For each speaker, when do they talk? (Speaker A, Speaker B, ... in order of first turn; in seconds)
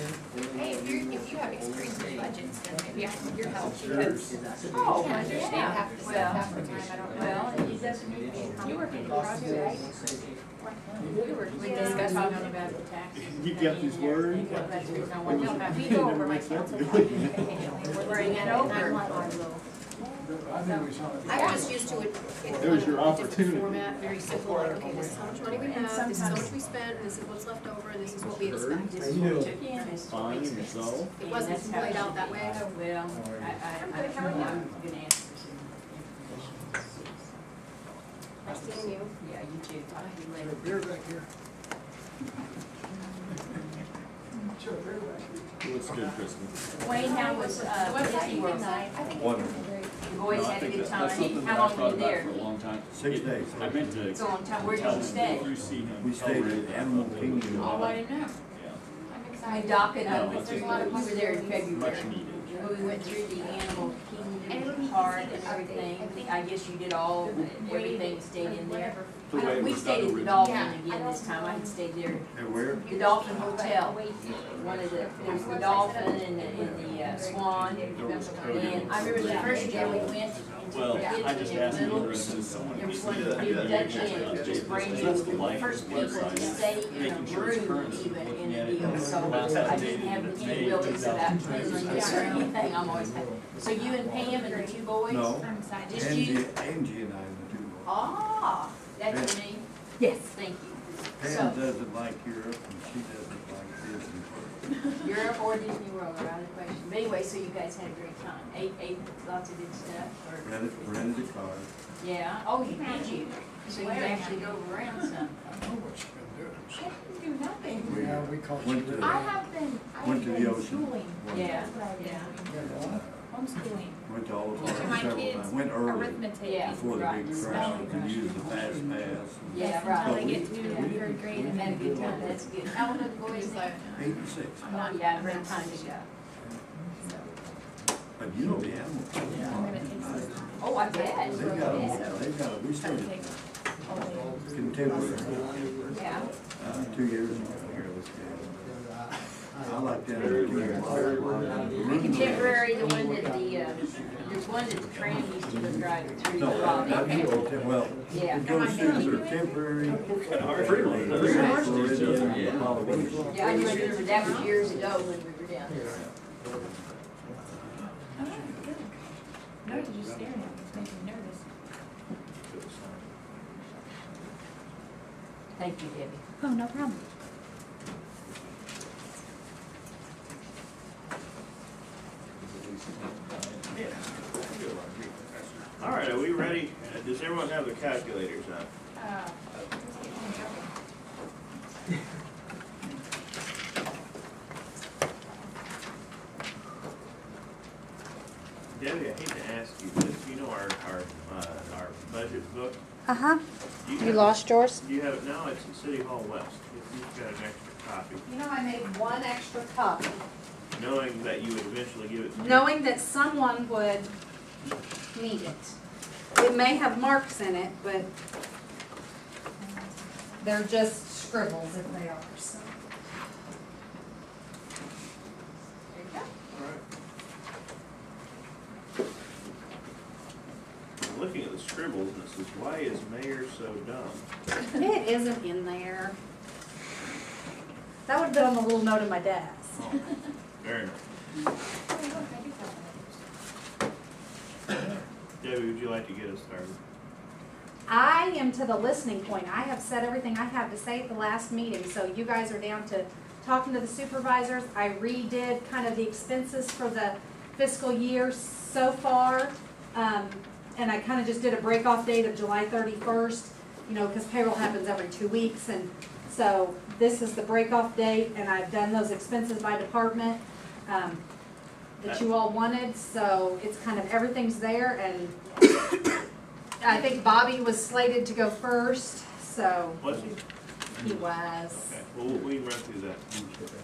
Speaker A: 0.2-10.4, 10.9-12.0, 17.8-19.4, 21.2-29.5, 31.2-32.6, 34.0-34.4, 38.5-39.1, 81.4-81.8, 133.0-133.6, 145.0-145.6
Speaker B: 0.5-12.8, 15.3-20.2, 21.2-21.8, 25.4-26.6, 34.2-34.5, 38.5-38.9, 46.9-50.0, 54.2-55.0, 57.5-66.5, 67.2-69.3, 70.4-71.9, 72.5-81.3, 86.4-86.7, 91.8-92.5, 93.8-94.8, 95.4-96.2, 112.6-115.0, 116.7-118.1, 118.9-128.8, 129.5-136.0, 139.3-144.6, 158.4-160.0, 163.4-164.6, 168.1-169.0, 169.6-171.4, 176.4-177.0, 188.9-190.7, 219.6-220.5, 241.9-243.2
Speaker C: 4.1-4.3, 13.2-17.5, 22.5-23.8, 28.2-29.0, 30.1-31.1, 31.8-32.2, 45.6-47.0, 50.2-58.8, 60.0-61.1, 61.7-62.9, 69.3-70.7, 75.4-76.0, 77.2-92.4, 146.6-147.9, 150.1-152.5, 160.2-163.2, 165.9-166.1, 182.3-183.9, 185.4-186.3
Speaker D: 4.9-5.3, 8.6-10.1, 11.0-12.7, 14.7-15.1, 17.1-19.4, 20.2-27.4, 29.1-29.6, 33.1-34.8, 36.3-36.7, 40.4-41.3, 44.5-47.7, 88.8-94.7, 115.5-116.9, 117.8-119.3, 122.5-123.2, 124.6-124.8, 127.4-129.3, 130.9-132.4, 138.4-140.4, 141.1-142.0, 143.9-146.2, 148.6-158.3, 159.9-165.1, 165.8-166.7, 167.3-167.8
Speaker E: 5.0-6.5, 7.1-8.2, 11.5-16.2, 17.8-19.0, 28.9-37.4, 38.9-40.8, 46.8-48.9, 50.0-52.5, 54.1-55.5, 59.4-72.3, 72.8-96.5, 97.8-101.6, 105.0-111.1, 112.0-115.3, 121.3-122.3, 126.4-127.8, 129.5-133.8, 134.7-136.1, 140.6-142.1, 145.9-146.3, 151.9-157.5, 158.1-159.1, 163.3-166.0, 175.6-176.2, 225.9-226.3
Speaker F: 49.0-49.8, 52.9-54.1, 54.9-58.0, 69.4-70.5, 72.3-73.4, 95.0-97.9, 99.1-99.3, 101.2-104.7, 110.4-111.7, 117.8-119.4, 119.9-121.7, 122.5-123.3, 124.0-132.4, 133.9-134.7, 138.2-140.5, 141.2-143.4, 144.5-145.6, 146.6-148.6, 149.6-152.8, 156.3-163.5
Speaker G: 82.7-85.6, 89.5-90.4, 145.2-146.7, 159.8-161.6, 167.3-168.6, 169.7-170.5, 172.3-174.3, 183.7-188.7, 198.7-202.8, 203.8-208.2, 210.7-212.8, 226.5-226.8, 231.0-234.2, 240.6-241.0, 245.4-246.8, 272.0-272.4, 280.0-280.4, 281.7-283.2
Speaker H: 158.6-158.9, 203.1-203.4, 204.0-204.8, 208.2-210.2, 212.3-214.1, 215.1-215.7, 216.3-218.1, 220.4-222.8, 234.7-236.1, 238.1-239.8, 247.9-271.2, 272.0-275.5, 276.8-280.1, 280.9-281.9